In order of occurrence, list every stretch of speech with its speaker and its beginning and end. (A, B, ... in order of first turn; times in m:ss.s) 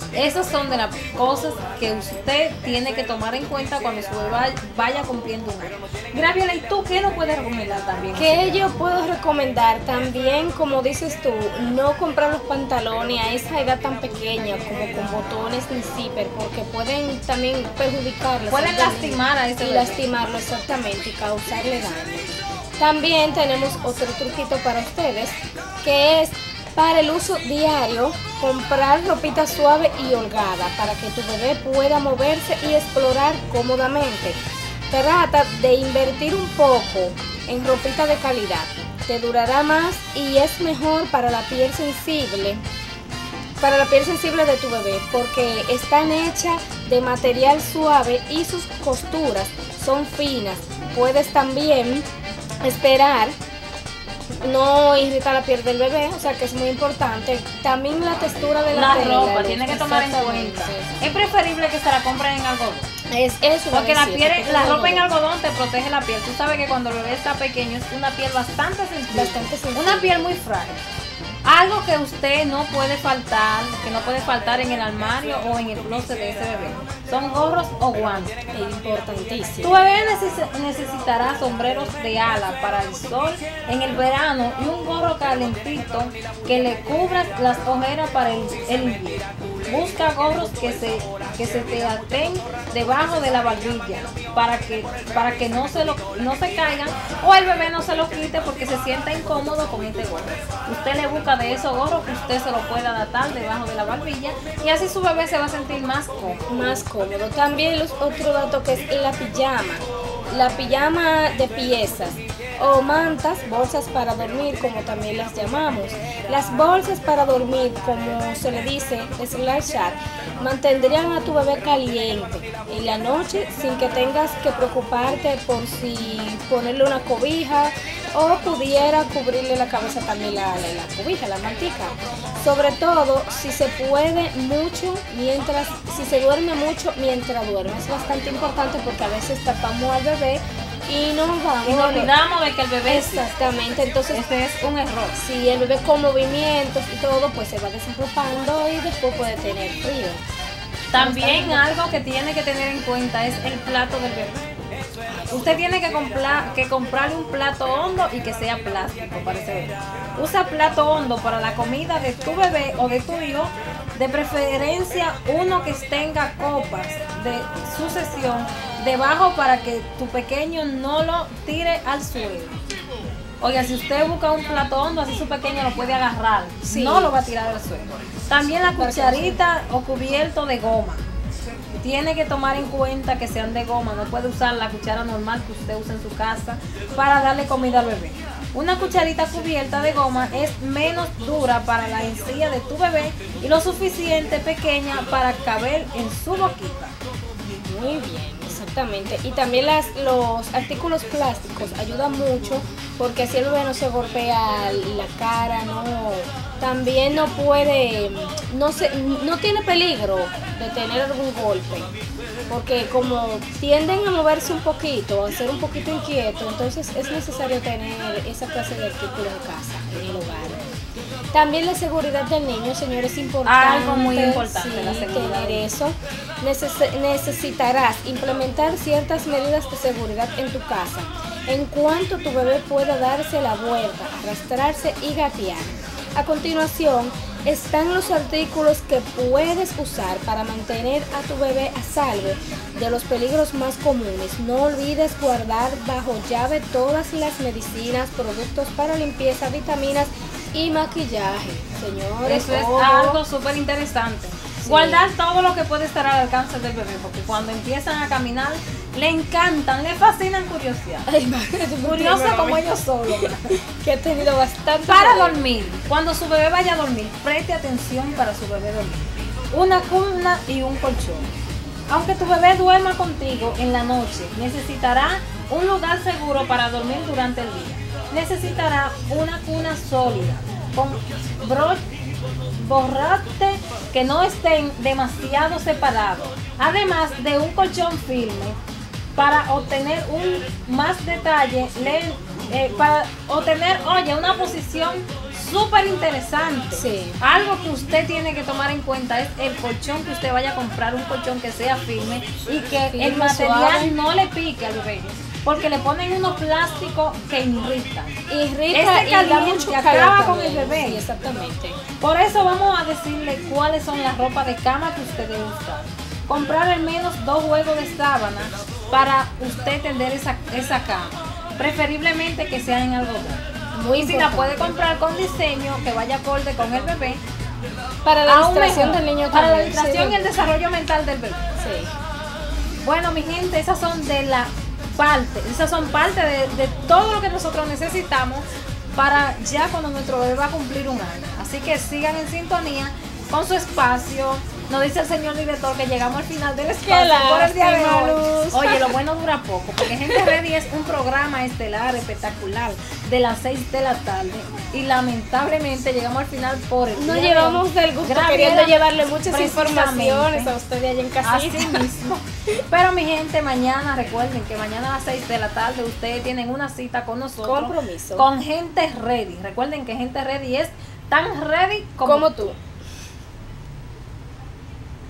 0:00.1-0:08.4 A
0:08.1-0:34.4 B
0:18.5-0:20.1 A
0:34.9-0:42.6 B
0:43.6-0:52.1 B
0:52.6-0:53.4 B
0:54.4-1:00.9 B
0:58.7-1:02.9 A
1:03.1-1:05.1 B
1:03.7-1:10.8 A
1:09.1-1:10.1 B
1:11.4-1:18.4 A
1:18.5-1:19.8 B
1:19.6-1:46.4 A
1:46.5-2:22.1 B
2:21.6-2:23.2 A
2:22.9-2:24.2 B
2:24.1-2:25.2 A
2:25.2-2:30.2 B
2:30.9-2:34.4 A
2:31.0-2:31.7 B
2:35.1-2:35.5 B
2:35.3-2:52.6 A
2:53.4-3:01.1 A
2:56.6-2:57.2 B
2:58.8-2:59.4 B
3:01.8-3:17.0 A
3:17.6-3:31.9 B
3:32.5-3:40.7 B
3:41.3-4:13.2 B
3:43.5-3:45.7 A
4:12.2-4:21.1 A
4:14.6-4:15.1 B
4:21.1-4:25.4 B
4:21.8-4:23.6 A
4:24.9-4:31.3 A
4:31.9-4:41.8 A
4:42.6-4:48.6 A
4:49.2-5:08.2 A
4:56.7-4:57.2 B
5:02.9-5:04.0 B
5:08.3-5:11.8 B
5:08.7-5:11.0 A
5:12.0-5:23.4 A
5:23.7-5:24.8 B
5:24.0-5:27.2 A
5:28.0-5:30.4 B
5:28.3-5:31.5 A
5:31.6-5:31.9 B
5:32.8-6:00.5 A
5:46.8-5:49.0 B
5:49.9-5:50.4 B
5:57.0-6:01.9 B
6:01.2-6:12.4 A
6:07.4-6:08.3 B
6:12.0-6:12.6 B